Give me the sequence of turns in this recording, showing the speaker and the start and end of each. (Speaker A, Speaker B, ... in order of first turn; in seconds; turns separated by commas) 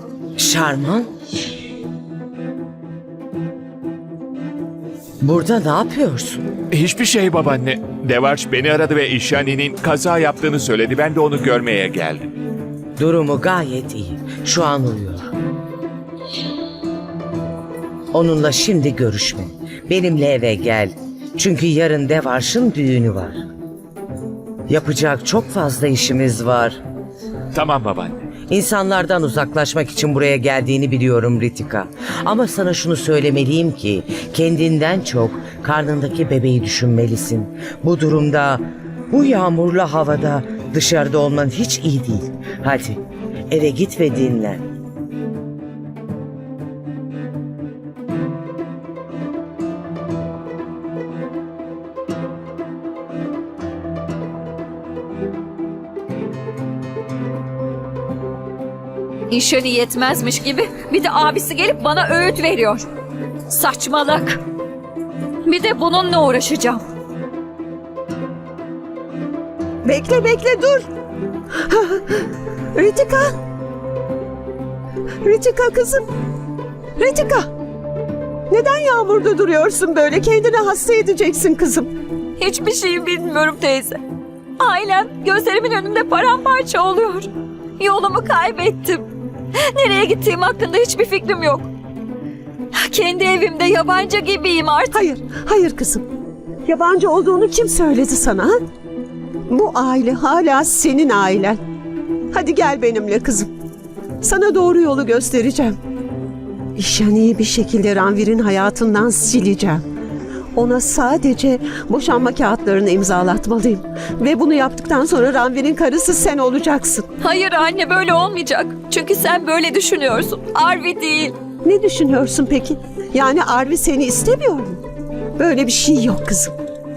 Speaker A: 0.4-1.1, Speaker A: 5.2-6.4, Speaker B: 6.7-12.3, Speaker A: 13.0-15.2, Speaker A: 18.1-23.4, Speaker A: 24.7-26.8, Speaker B: 27.5-28.3, Speaker A: 28.5-44.6, Speaker C: 59.3-62.8, Speaker C: 63.5-64.4, Speaker C: 65.4-66.8, Speaker D: 69.8-70.8, Speaker D: 71.7-72.2, Speaker D: 72.8-73.3, Speaker D: 75.2-76.0, Speaker D: 77.0-77.5, Speaker D: 78.5-81.9, Speaker C: 82.4-84.0, Speaker C: 84.6-89.0, Speaker C: 89.5-91.7, Speaker C: 92.7-95.0, Speaker D: 94.9-96.0, Speaker D: 96.7-98.6, Speaker D: 99.5-101.6, Speaker D: 102.3-103.5, Speaker D: 104.2-105.8, Speaker D: 106.8-109.8, Speaker D: 110.5-117.1, Speaker C: 117.2-121.3, Speaker D: 121.6-124.8, Speaker D: 125.4-126.5